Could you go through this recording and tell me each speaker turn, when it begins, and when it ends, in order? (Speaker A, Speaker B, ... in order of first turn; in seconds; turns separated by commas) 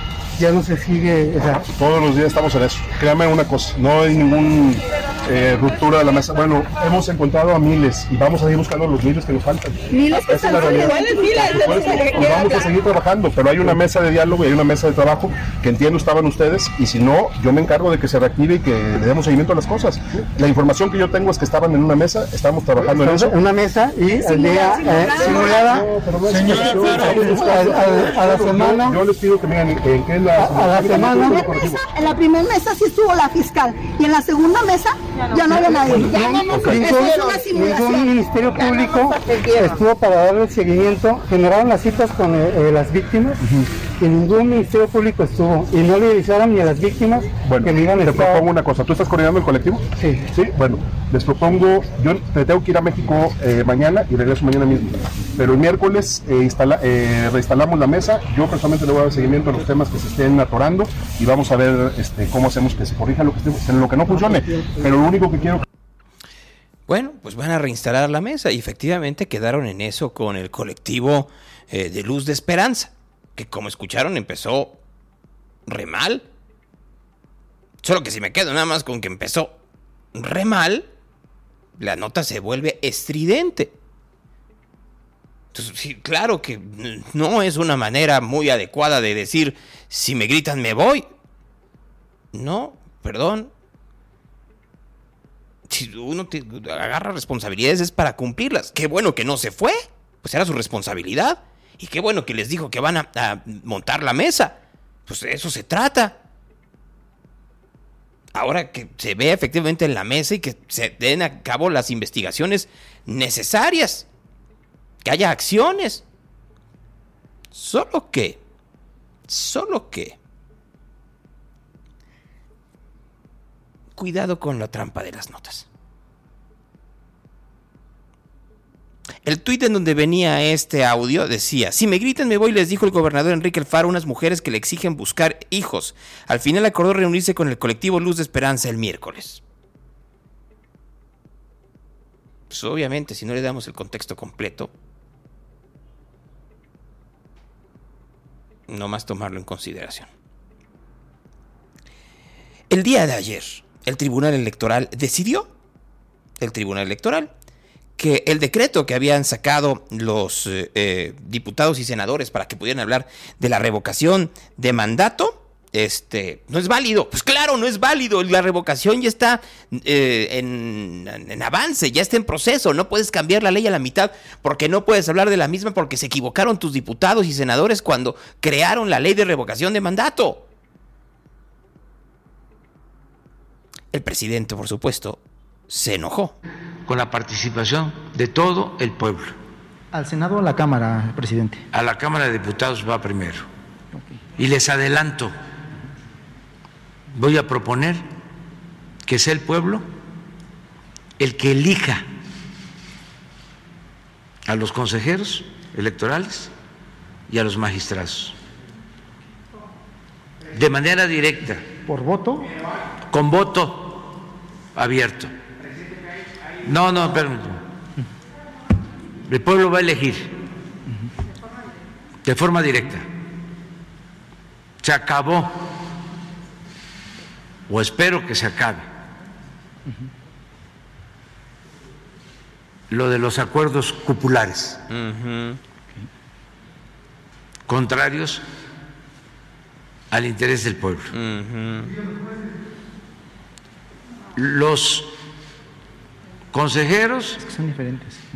Speaker A: 0.4-1.6, Speaker B: 1.7-23.4, Speaker C: 9.9-12.7, Speaker A: 22.8-29.0, Speaker C: 24.1-25.7, Speaker B: 25.2-31.7, Speaker A: 30.4-31.5, Speaker C: 30.9-39.7, Speaker A: 35.9-43.4, Speaker A: 44.0-48.4, Speaker B: 47.4-65.6, Speaker D: 66.9-74.8, Speaker D: 75.7-76.2, Speaker D: 77.8-79.5, Speaker D: 80.1-80.9, Speaker D: 81.8-83.7, Speaker D: 85.5-91.1, Speaker D: 92.3-93.5, Speaker D: 95.7-106.2, Speaker D: 108.3-114.1, Speaker D: 115.0-116.0, Speaker D: 117.5-118.4, Speaker D: 119.3-120.2, Speaker D: 124.0-125.7, Speaker D: 129.2-139.4, Speaker D: 142.5-144.7, Speaker D: 148.7-150.1, Speaker D: 152.7-155.5, Speaker D: 156.4-157.3, Speaker D: 158.0-180.4, Speaker D: 183.9-186.3, Speaker E: 186.8-189.4, Speaker F: 189.9-191.6, Speaker E: 191.7-193.5, Speaker E: 194.3-195.3, Speaker E: 197.1-198.1, Speaker E: 199.1-199.8, Speaker E: 201.2-202.1, Speaker E: 204.4-206.5, Speaker E: 207.3-208.3, Speaker E: 210.5-211.8, Speaker E: 213.1-214.1, Speaker E: 214.7-215.3, Speaker E: 216.6-217.6, Speaker E: 219.3-220.3, Speaker E: 222.2-223.1, Speaker E: 224.8-225.6, Speaker E: 227.7-228.9, Speaker E: 232.9-234.8, Speaker D: 234.9-235.6, Speaker E: 237.7-238.4, Speaker E: 240.1-241.1, Speaker D: 241.1-241.9, Speaker E: 244.3-245.1, Speaker E: 246.5-247.5, Speaker F: 247.6-248.2